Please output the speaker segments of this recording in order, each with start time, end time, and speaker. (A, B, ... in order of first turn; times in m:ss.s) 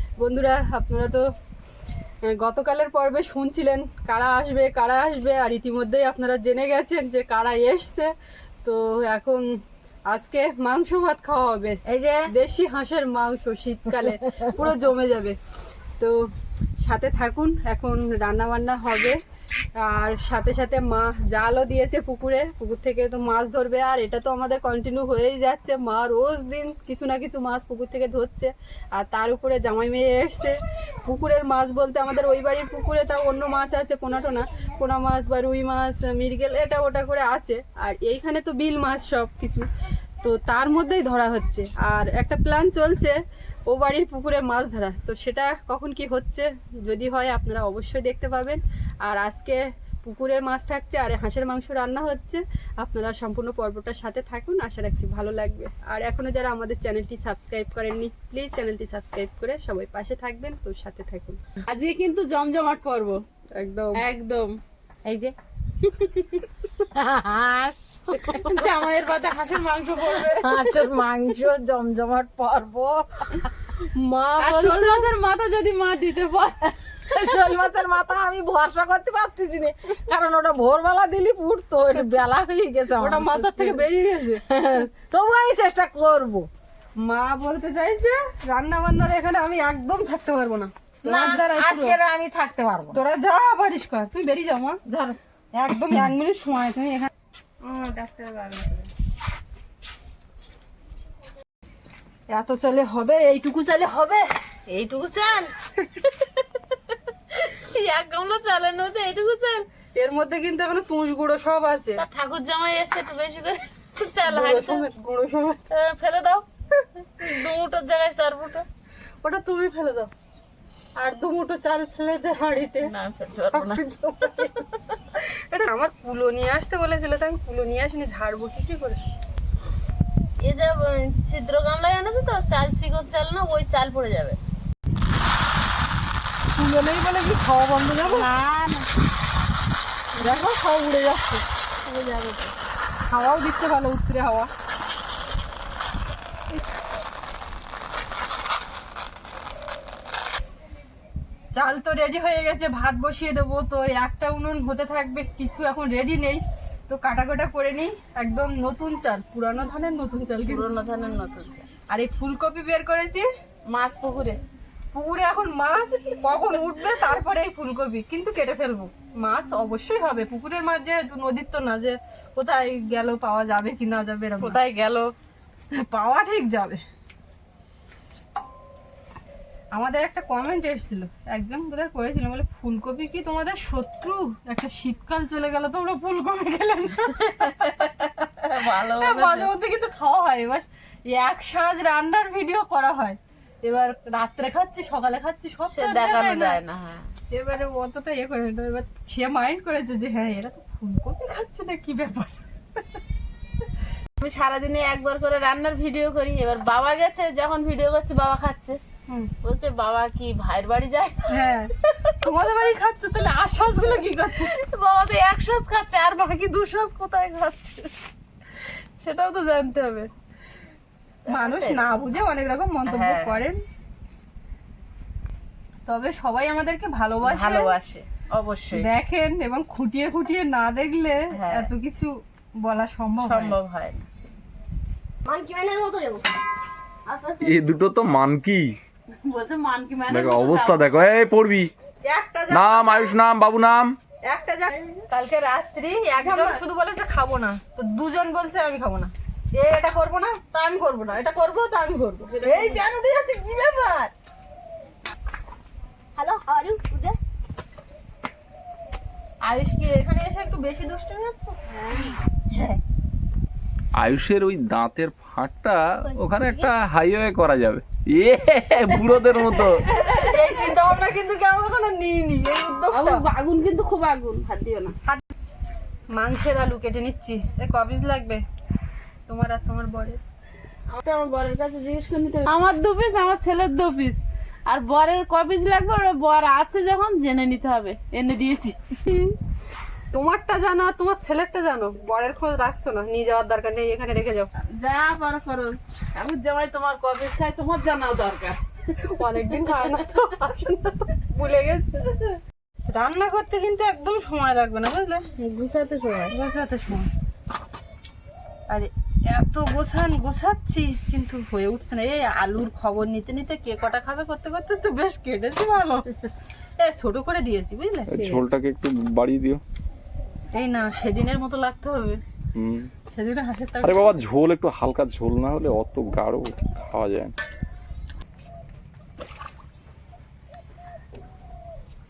0:00.2-0:01.3 A
0:02.2-0:08.1 A
0:08.6-0:09.5 A
0:10.1-0:15.4 A
0:11.9-0:12.2 B
0:16.8-0:19.2 A
0:19.8-0:39.7 A
0:40.2-0:43.2 A
0:43.7-1:01.4 A
1:01.7-1:03.2 C
1:03.6-1:04.0 A
1:04.0-1:05.2 C
1:05.1-1:05.3 B
1:06.9-1:09.0 B
1:08.3-1:10.8 C
1:09.6-1:13.5 B
1:13.9-1:15.1 A
1:14.4-1:15.1 C
1:14.4-1:15.8 B
1:15.6-1:16.6 C
1:17.1-1:23.9 B
1:23.0-1:24.4 A
1:24.5-1:26.5 B
1:27.0-1:32.0 A
1:31.0-1:33.0 B
1:32.9-1:34.8 A
1:34.9-1:35.2 B
1:35.6-1:37.1 A
1:37.6-1:38.9 C
1:42.3-1:44.3 A
1:44.7-1:45.5 C
1:47.3-1:49.7 C
1:50.0-1:52.0 A
1:52.0-1:54.9 C
1:54.2-1:55.6 A
1:55.7-1:56.4 C
1:56.8-1:57.4 A
1:57.2-1:58.6 C
1:59.2-2:00.1 A
2:01.0-2:02.9 A
2:02.8-2:04.5 C
2:03.5-2:04.6 A
2:05.5-2:09.0 A
2:10.4-2:14.4 C
2:16.6-2:18.3 A
2:18.0-2:18.9 C
2:20.2-2:21.4 A
2:21.8-2:22.5 C
2:23.1-2:24.5 A
2:31.6-2:40.7 A
2:40.4-2:41.7 C
2:41.9-2:43.3 A
2:43.7-2:44.4 C
2:44.9-2:54.6 A
2:54.4-2:55.1 C
2:55.7-2:56.8 A
2:59.7-3:08.0 A
3:07.3-3:09.5 C
3:08.6-3:16.6 A
3:15.7-3:17.1 C
3:17.3-3:22.4 A
3:24.2-3:28.8 C
3:29.4-3:31.3 C
3:31.3-3:31.7 A
3:32.2-3:34.5 A
3:34.5-3:37.9 C
3:39.0-3:40.1 C
3:41.3-3:41.8 C
3:41.3-3:43.6 A
3:42.9-3:43.4 C
3:45.9-3:47.7 A
3:47.2-3:48.8 C
3:48.7-3:53.6 A
3:51.4-3:51.7 C
3:53.2-3:54.0 C
3:55.2-3:56.2 D
3:57.1-3:57.4 D
3:57.4-3:58.8 E
3:59.3-4:00.8 C
4:00.1-4:01.7 E
4:02.1-4:03.2 A
4:02.5-4:04.0 E
4:04.2-4:14.1 A
4:04.7-4:05.0 D
4:06.2-4:06.6 D
4:12.3-4:12.8 C
4:16.2-4:17.2 D
4:19.4-4:21.6 A
4:21.7-4:22.0 D
4:22.5-4:22.8 A
4:24.0-4:29.8 E
4:26.0-4:26.7 D
4:29.6-4:33.2 A
4:32.9-4:35.0 C
4:36.1-4:38.4 A
4:39.3-4:40.2 A
4:40.9-4:48.8 C
4:49.1-4:49.3 A
4:50.1-4:54.5 A
4:54.6-4:58.6 C
4:59.1-5:02.2 A
5:02.9-5:05.2 A
5:05.4-5:06.3 C
5:06.3-5:07.1 A
5:08.7-5:16.1 A
5:16.8-5:18.4 A
5:18.1-5:19.6 E
5:20.5-5:22.2 A
5:22.6-5:22.9 E
5:23.1-5:24.2 A
5:23.8-5:27.3 E